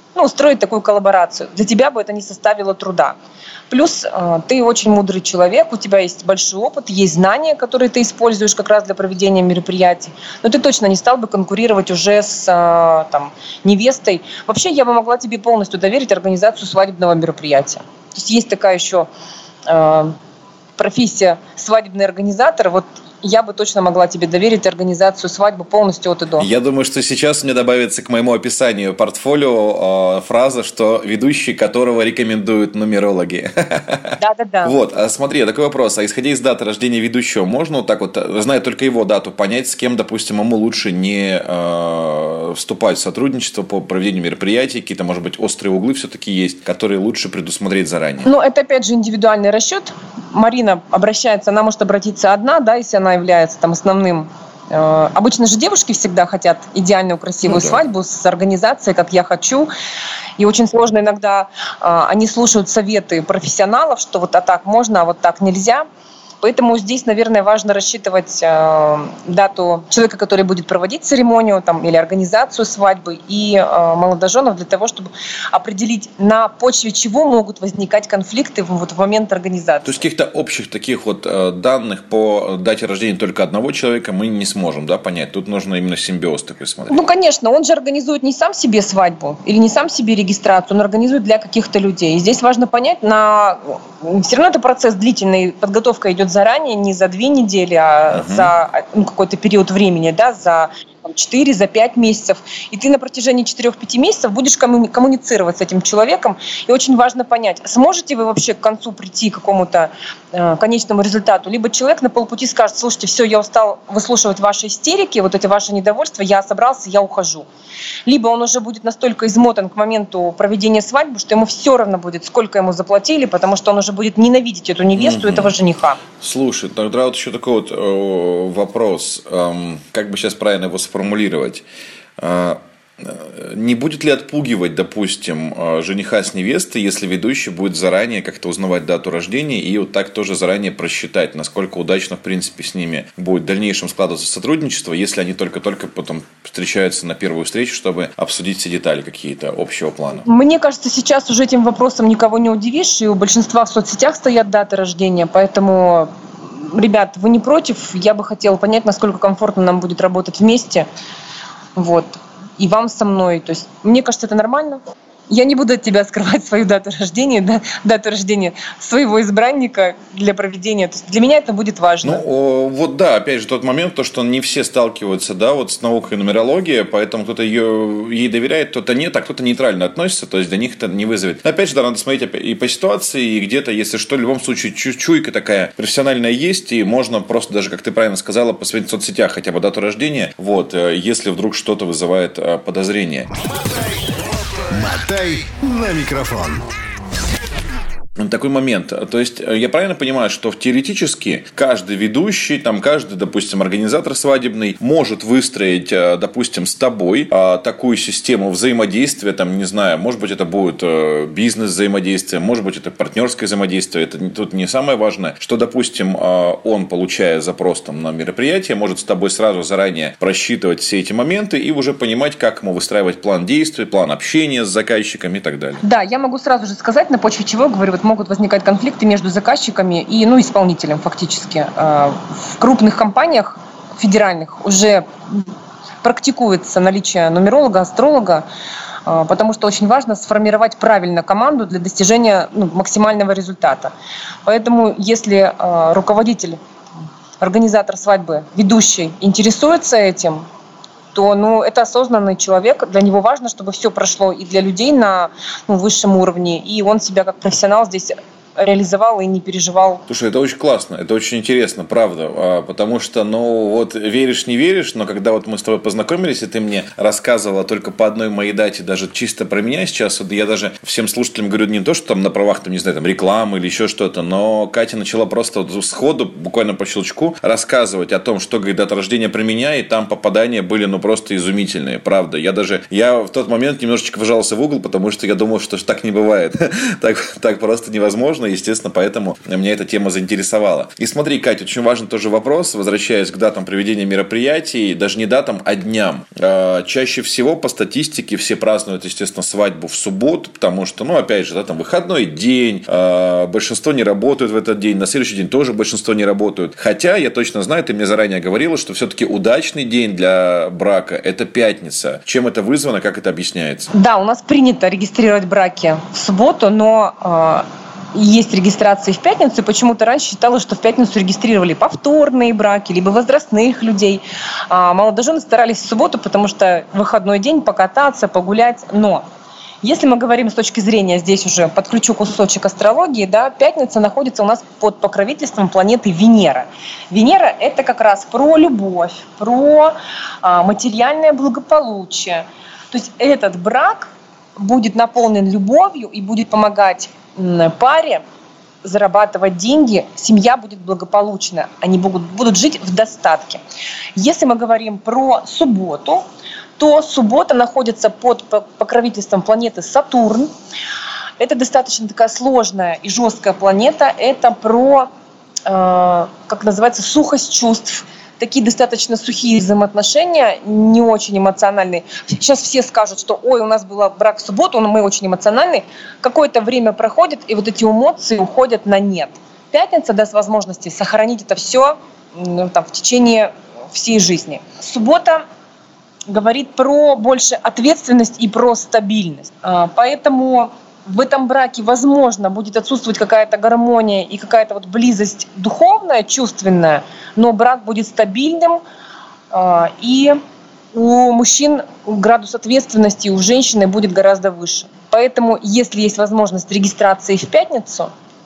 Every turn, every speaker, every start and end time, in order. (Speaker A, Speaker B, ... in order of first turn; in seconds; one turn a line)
Speaker A: 0.1-3.1
Speaker A: 3.7-19.1
Speaker A: 19.7-20.1
Speaker A: 20.8-26.5
Speaker B: 26.4-48.3
Speaker A: 34.2-34.8
Speaker A: 48.2-59.7
Speaker B: 57.5-57.8
Speaker A: 60.4-65.8
Speaker A: 66.4-80.0
Speaker B: 79.8-87.0
Speaker A: 86.9-117.5
Speaker B: 98.1-98.5
Speaker A: 118.1-126.0
Speaker B: 125.0-125.5
Speaker B: 126.2-131.6
Speaker B: 132.2-150.3
Speaker A: 150.2-160.9
Speaker A: 161.8-172.2
Speaker B: 172.0-193.3
Speaker C: 194.7-196.6
Speaker B: 198.2-225.8
Speaker A: 225.8-235.5
Speaker A: 236.0-238.4
Speaker A: 239.1-243.9
Speaker A: 244.4-246.6
Speaker A: 247.4-250.4
Speaker A: 251.1-260.0
Speaker B: 260.1-313.9
Speaker A: 313.9-329.2
Speaker A: 329.8-348.2
Speaker A: 348.8-353.6
Speaker A: 354.2-356.2
Speaker A: 356.8-360.5
Speaker A: 361.4-365.1
Speaker A: 365.7-385.4
Speaker A: 386.3-398.8
Speaker A: 399.5-400.4
Speaker A: 400.9-408.1